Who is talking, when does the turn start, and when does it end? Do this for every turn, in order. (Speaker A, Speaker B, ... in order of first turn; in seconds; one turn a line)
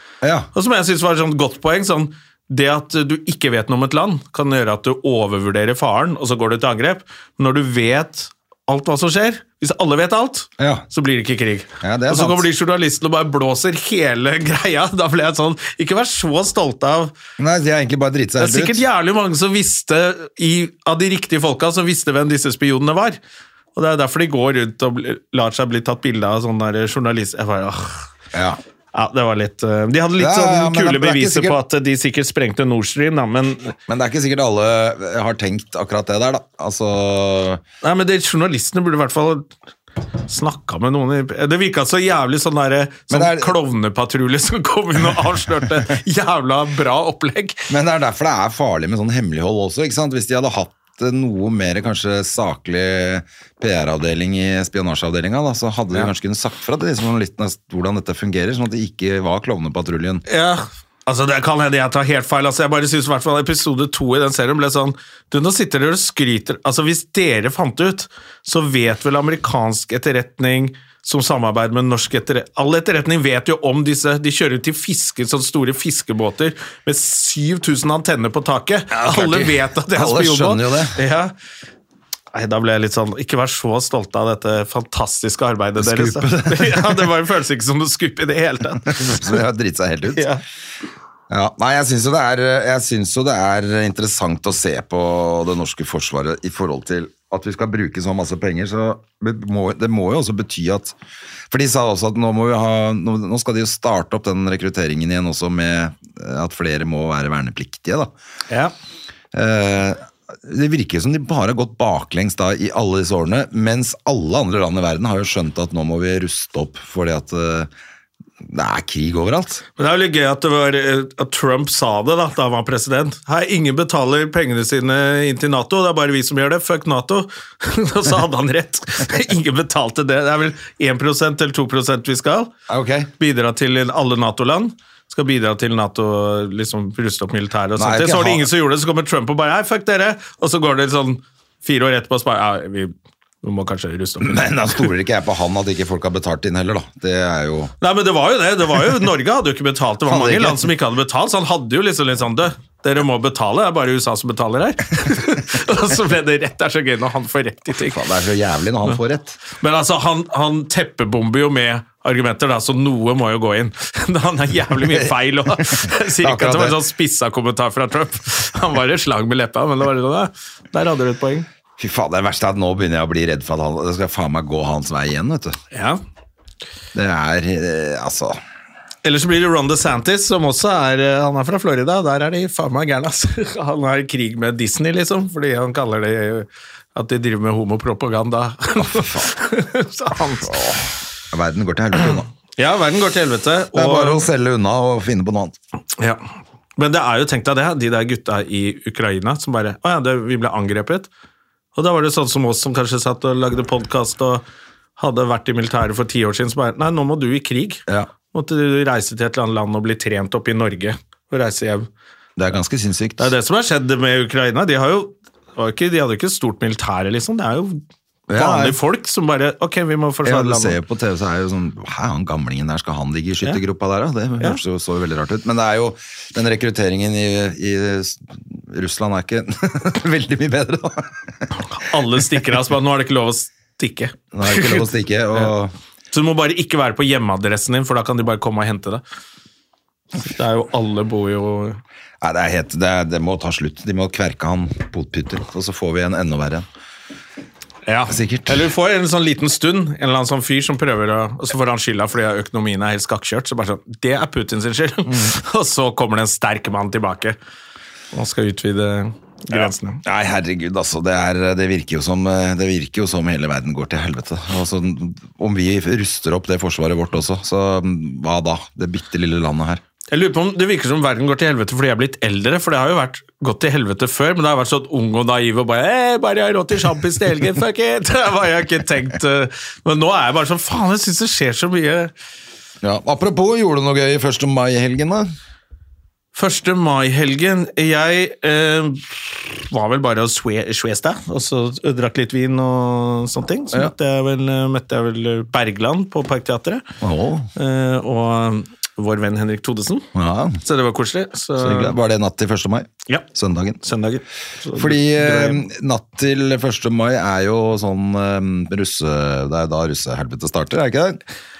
Speaker A: 0.2-0.5
Speaker B: 0.5-17.1
Speaker A: 10.6-10.8
Speaker A: 11.8-12.4
Speaker A: 17.4-18.8
Speaker B: 18.4-23.2
Speaker B: 23.8-28.1
Speaker A: 28.3-28.6
Speaker B: 28.9-33.8
Speaker A: 30.2-31.6
Speaker A: 33.9-37.6
Speaker B: 37.8-39.5
Speaker B: 40.2-47.7
Speaker A: 43.1-43.6
Speaker A: 47.7-60.2
Speaker B: 60.3-81.3
Speaker A: 78.9-81.0
Speaker B: 82.3-89.4
Speaker A: 85.8-87.1
Speaker A: 88.8-90.3
Speaker B: 90.1-90.4
Speaker A: 91.3-100.9
Speaker A: 101.5-108.1
Speaker A: 109.3-117.7
Speaker A: 118.4-119.6
Speaker B: 119.8-132.5
Speaker A: 132.7-133.1
Speaker B: 133.2-144.9
Speaker A: 137.8-138.5
Speaker A: 144.2-147.7
Speaker B: 147.8-158.0
Speaker A: 150.1-150.7
Speaker A: 157.7-159.4
Speaker B: 159.5-171.5
Speaker A: 164.9-166.8
Speaker A: 171.8-175.6
Speaker B: 175.7-176.0
Speaker A: 176.9-178.4
Speaker B: 179.0-190.6
Speaker A: 188.8-189.3
Speaker A: 190.4-192.3
Speaker B: 192.6-194.3
Speaker A: 193.7-195.6
Speaker B: 196.0-201.1
Speaker B: 201.8-204.4
Speaker B: 205.0-211.9
Speaker A: 212.4-213.3
Speaker B: 213.2-217.8
Speaker A: 218.3-218.8
Speaker B: 218.3-220.8
Speaker A: 220.2-231.2
Speaker B: 231.7-235.5
Speaker A: 234.3-235.7
Speaker B: 236.1-239.0
Speaker B: 240.2-241.8
Speaker A: 242.2-246.7
Speaker B: 247.9-257.4
Speaker A: 248.1-248.7
Speaker A: 255.1-255.3
Speaker B: 258.1-260.0
Speaker A: 259.5-269.8
Speaker B: 270.1-282.1
Speaker A: 282.8-285.3
Speaker B: 286.4-296.9
Speaker A: 297.0-297.5
Speaker B: 297.6-300.1
Speaker A: 300.1-300.6
Speaker B: 300.6-301.9
Speaker A: 301.6-303.8
Speaker B: 303.8-305.6
Speaker A: 304.8-311.2